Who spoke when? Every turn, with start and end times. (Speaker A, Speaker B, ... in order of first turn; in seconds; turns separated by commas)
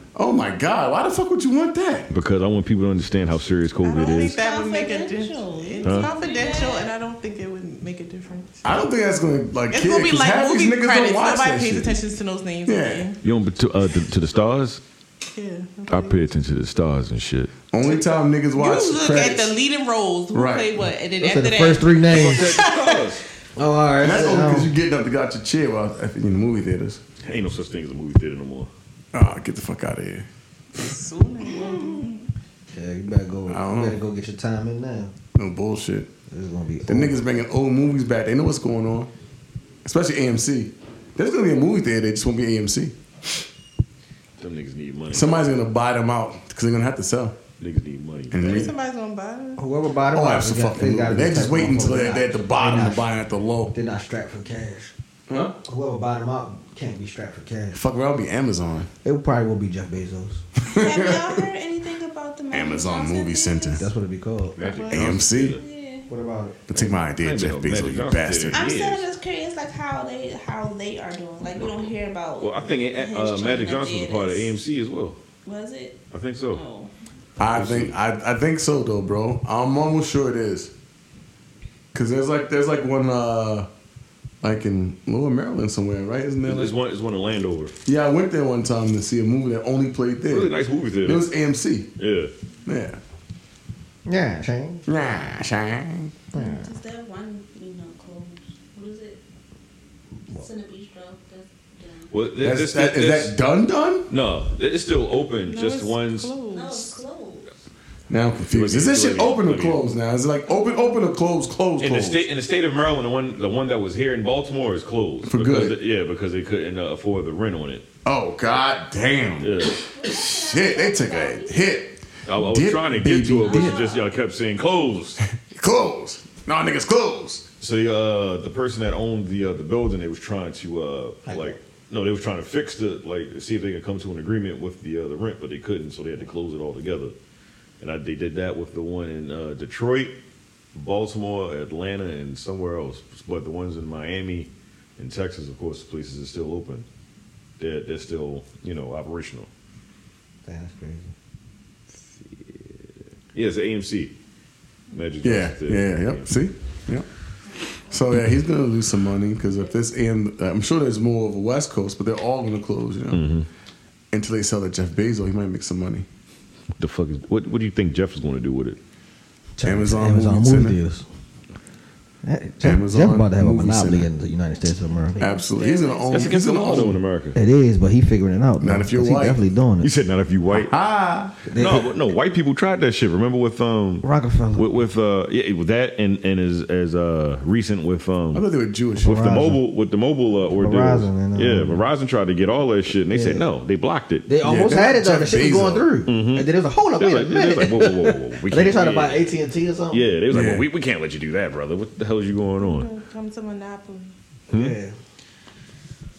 Speaker A: 0.1-2.1, Speaker B: 2.1-4.4, Speaker C: 3.8-8.8, Speaker D: 4.2-6.9, Speaker B: 5.8-6.1, Speaker A: 8.6-12.0, Speaker C: 9.7-13.2, Speaker A: 12.7-13.1, Speaker B: 13.2-14.8, Speaker C: 15.2-16.2, Speaker B: 15.9-17.5, Speaker A: 17.7-19.5, Speaker C: 17.8-23.2, Speaker A: 20.3-20.7, Speaker E: 21.2-22.6, Speaker B: 22.1-23.2, Speaker E: 23.6-24.7, Speaker A: 24.0-27.0, Speaker B: 27.2-28.7, Speaker A: 29.1-30.3, Speaker C: 30.8-32.2, Speaker E: 32.7-35.1, Speaker A: 33.5-34.0, Speaker A: 35.4-36.1, Speaker E: 36.3-37.2, Speaker A: 36.9-39.1, Speaker A: 39.9-43.0, Speaker B: 44.4-45.4, Speaker A: 45.1-47.4, Speaker B: 47.6-48.7, Speaker A: 48.3-48.7, Speaker C: 48.4-49.6, Speaker E: 49.6-53.1, Speaker A: 50.1-53.8, Speaker E: 53.7-54.9, Speaker A: 55.3-55.5, Speaker E: 55.6-57.8, Speaker A: 57.7-58.9, Speaker E: 59.0-60.4, Speaker A: 60.7-61.5, Speaker D: 60.7-63.9, Speaker A: 62.5-63.8, Speaker E: 63.8-64.6, Speaker B: 64.6-65.6, Speaker C: 64.6-65.2, Speaker A: 64.9-65.6, Speaker D: 65.4-66.1, Speaker E: 66.1-66.6, Speaker A: 66.7-68.7, Speaker B: 66.7-69.1, Speaker D: 68.5-74.6, Speaker B: 72.4-75.2, Speaker D: 75.5-76.9, Speaker B: 76.1-76.6, Speaker A: 77.4-80.7, Speaker B: 77.5-78.0, Speaker A: 81.9-83.7, Speaker A: 84.4-86.8, Speaker B: 86.5-87.8, Speaker A: 87.9-91.9, Speaker B: 90.2-91.3, Speaker B: 92.0-92.3, Speaker A: 92.7-93.0, Speaker E: 94.1-94.8, Speaker A: 94.9-96.1, Speaker E: 96.3-96.6, Speaker D: 96.3-99.2, Speaker D: 100.3-102.3, Speaker B: 102.1-103.4, Speaker A: 102.4-104.1, Speaker B: 104.1-106.3, Speaker C: 105.4-107.0, Speaker D: 106.5-107.5, Speaker A: 108.1-112.2, Speaker B: 108.5-109.9, Speaker B: 111.8-117.8, Speaker A: 115.3-115.8, Speaker A: 118.0-123.9, Speaker B: 119.4-119.8, Speaker D: 119.7-121.8, Speaker B: 122.3-125.2, Speaker D: 123.5-124.1, Speaker A: 125.3-127.4, Speaker B: 127.6-137.2, Speaker E: 131.3-131.6, Speaker B: 137.8-140.2, Speaker B: 140.7-146.9, Speaker B: 147.6-149.5, Speaker E: 150.5-151.1, Speaker B: 153.3-154.1, Speaker B: 154.9-156.3, Speaker A: 155.2-157.1, Speaker A: 157.8-163.3, Speaker B: 163.1-163.5, Speaker A: 164.1-166.1, Speaker B: 166.8-168.8, Speaker E: 169.6-171.1, Speaker A: 169.6-170.8, Speaker E: 172.2-175.2, Speaker A: 172.6-174.1, Speaker C: 175.2-176.3, Speaker A: 175.2-177.0, Speaker B: 176.1-177.4, Speaker E: 177.3-179.9, Speaker A: 178.6-179.4, Speaker B: 179.8-180.8, Speaker A: 180.5-181.4, Speaker E: 181.5-181.9, Speaker B: 181.6-188.5, Speaker E: 184.0-184.7, Speaker A: 188.3-189.5, Speaker B: 189.0-194.3, Speaker E: 189.0-189.6, Speaker E: 190.5-191.8, Speaker E: 193.1-193.5, Speaker E: 194.3-200.1, Speaker A: 194.4-196.1, Speaker B: 196.1-202.9, Speaker A: 200.3-200.7, Speaker C: 202.6-204.1, Speaker B: 204.5-204.8, Speaker E: 204.5-204.9